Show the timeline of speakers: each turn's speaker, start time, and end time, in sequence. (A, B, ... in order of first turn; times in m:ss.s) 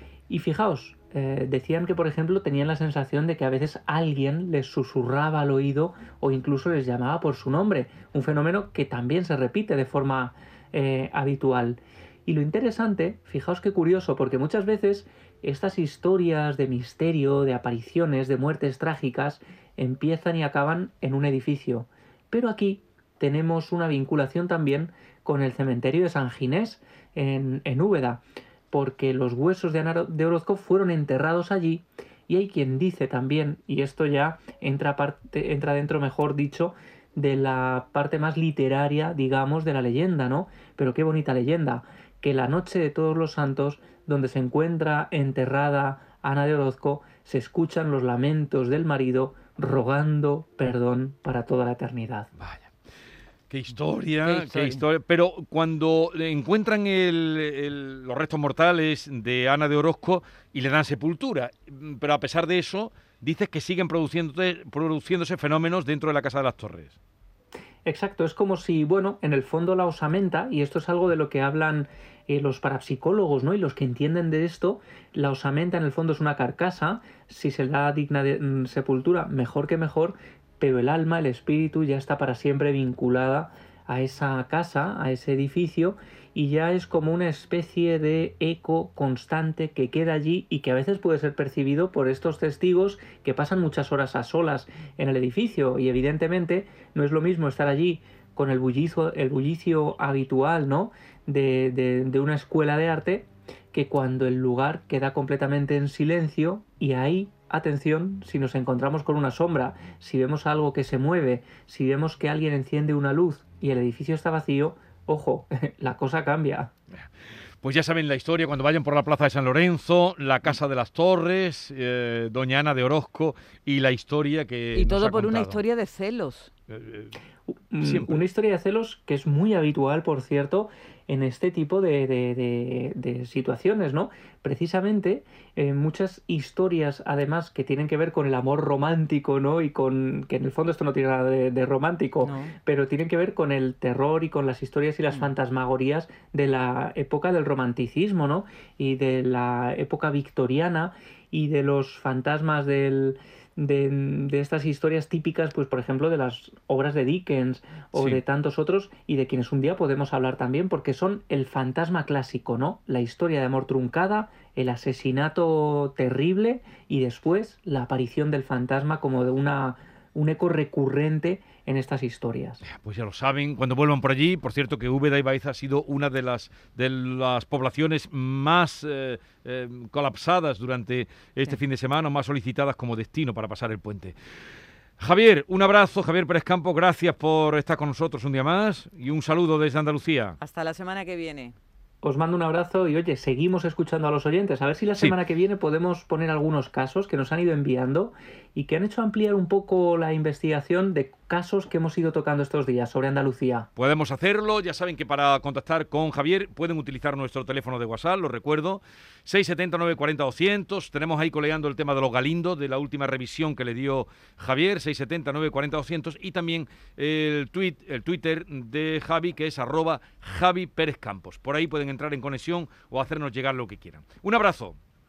0:00.3-0:52.3 A
0:52.4-0:52.7 B
0:53.5-1:07.0 B
0:54.2-0:54.8 C
1:07.8-1:56.7 A
1:57.6-2:05.6 B
2:04.7-2:06.5 C
2:06.7-2:07.2 B
2:07.5-2:52.6 A
2:07.8-2:08.2 B
2:22.2-2:22.5 C
2:37.9-2:38.2 B
2:52.6-3:04.1 B
3:05.0-3:10.4 B
3:10.4-3:11.5 C
3:12.0-3:23.7 A
3:23.8-3:44.8 B